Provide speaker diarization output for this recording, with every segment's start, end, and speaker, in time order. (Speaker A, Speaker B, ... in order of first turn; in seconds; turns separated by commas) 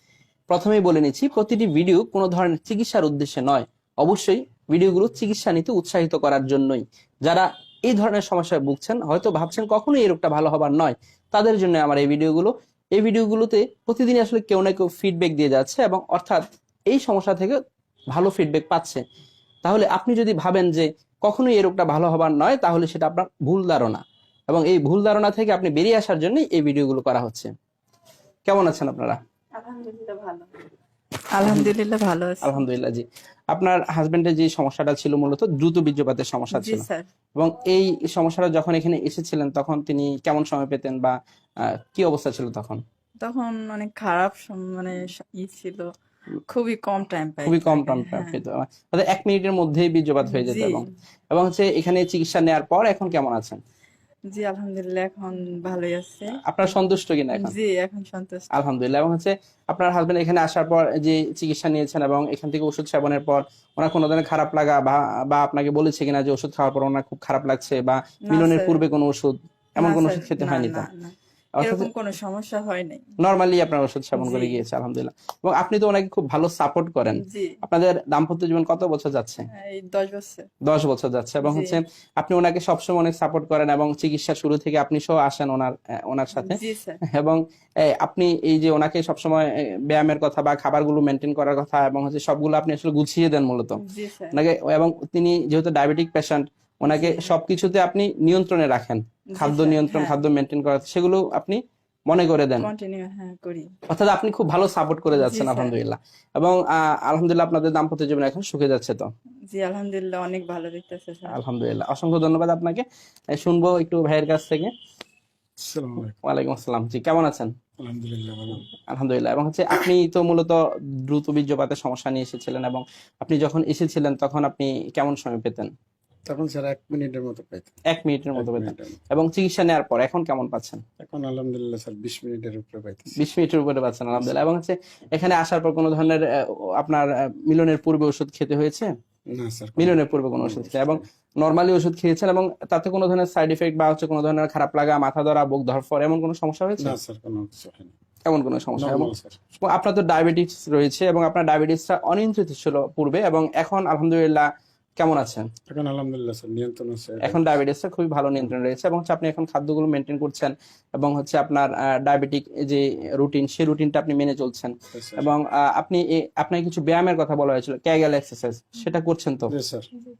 Speaker A: 0.5-17.6, Speaker A: 18.1-19.0, Speaker A: 19.6-27.5, Speaker A: 28.5-29.2, Speaker B: 29.6-30.5, Speaker B: 31.3-32.6, Speaker A: 31.4-31.7, Speaker A: 32.4-41.1, Speaker B: 36.5-37.1, Speaker A: 41.7-42.8, Speaker B: 43.2-45.9, Speaker B: 46.5-48.4, Speaker A: 47.4-53.6, Speaker B: 50.2-50.8, Speaker B: 54.3-56.4, Speaker A: 56.4-57.5, Speaker B: 57.3-58.5, Speaker A: 58.5-70.9, Speaker B: 68.3-68.8, Speaker B: 69.8-73.1, Speaker A: 71.5-71.9, Speaker A: 73.2-79.5, Speaker B: 74.1-74.6, Speaker B: 77.2-77.6, Speaker B: 79.5-80.5, Speaker A: 80.6-93.8, Speaker B: 81.4-81.8, Speaker B: 86.3-87.0, Speaker B: 93.8-94.4, Speaker A: 94.3-102.7, Speaker B: 96.9-97.3, Speaker B: 99.3-100.2, Speaker B: 102.6-103.7, Speaker A: 103.9-109.1, Speaker B: 105.1-105.7, Speaker B: 109.5-111.4, Speaker A: 111.3-114.7, Speaker C: 115.6-116.1, Speaker A: 116.2-117.5, Speaker C: 117.8-118.7, Speaker A: 118.9-125.7, Speaker C: 126.2-127.8, Speaker A: 127.9-130.8, Speaker C: 128.3-129.0, Speaker C: 131.0-133.2, Speaker A: 133.2-136.2, Speaker A: 136.8-138.9, Speaker C: 139.3-141.0, Speaker A: 139.8-146.9, Speaker C: 146.8-147.9, Speaker A: 148.2-154.4, Speaker C: 148.8-149.3, Speaker A: 155.0-155.5, Speaker C: 155.7-157.5, Speaker A: 157.2-169.5, Speaker C: 164.9-165.3, Speaker C: 169.5-169.9